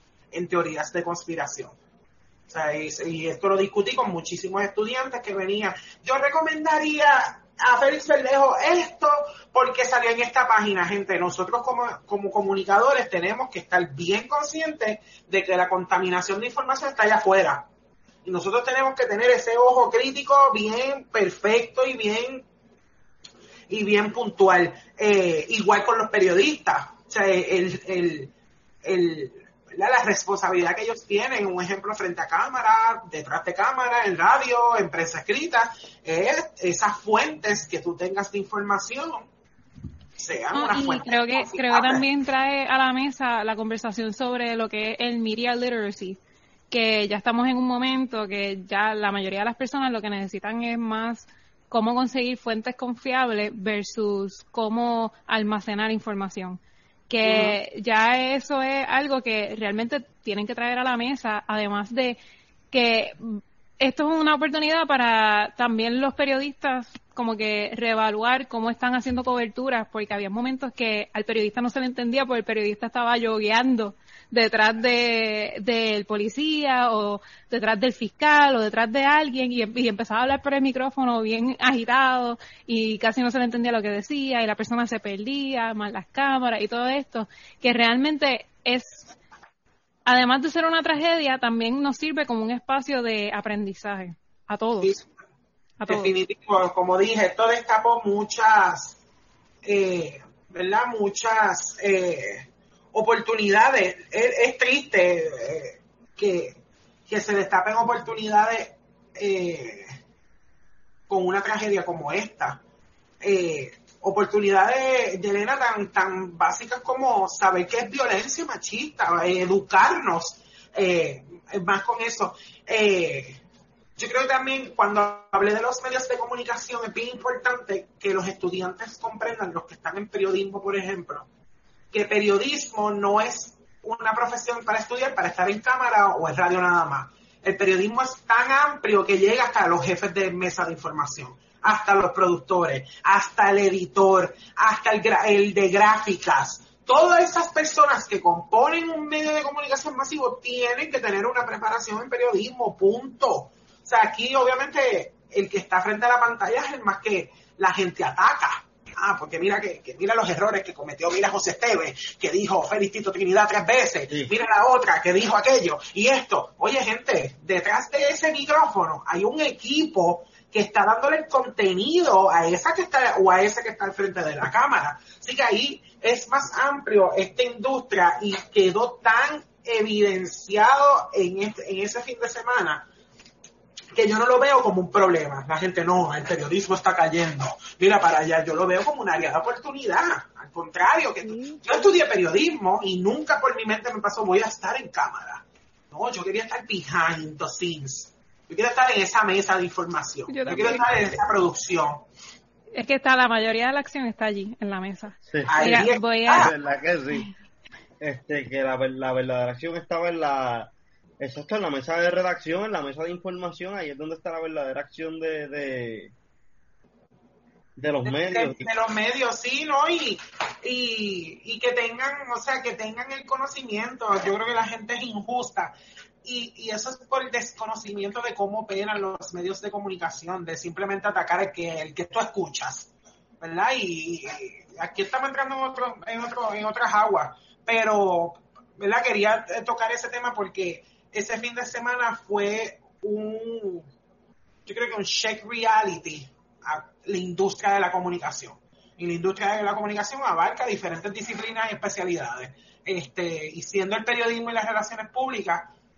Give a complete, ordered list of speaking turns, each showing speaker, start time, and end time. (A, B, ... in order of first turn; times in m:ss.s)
0:00.3-0:01.8 A
0:02.5-0:17.7 A
0:18.2-0:22.4 A
0:23.7-0:28.3 A
0:28.8-0:39.3 A
0:40.2-0:42.1 A
0:40.5-0:46.2 B
0:46.7-1:02.2 B
0:57.2-0:57.6 A
1:02.7-1:29.1 B
1:30.1-1:35.0 B
1:34.8-1:35.1 A
1:35.8-1:36.2 B
1:35.9-1:39.0 A
1:39.6-1:49.9 A
1:51.1-1:52.6 A
1:53.2-2:03.4 A
2:04.0-2:11.3 A
2:11.9-3:02.9 A
3:04.0-3:22.0 A
3:11.2-3:11.9 B
3:20.3-3:20.9 B
3:22.8-3:26.5 B
3:25.3-3:25.8 C
3:25.5-3:26.5 A
3:26.3-3:27.3 C
3:28.0-3:36.1 C
3:37.8-3:38.7 C
3:38.0-4:03.9 A
4:04.7-4:15.7 A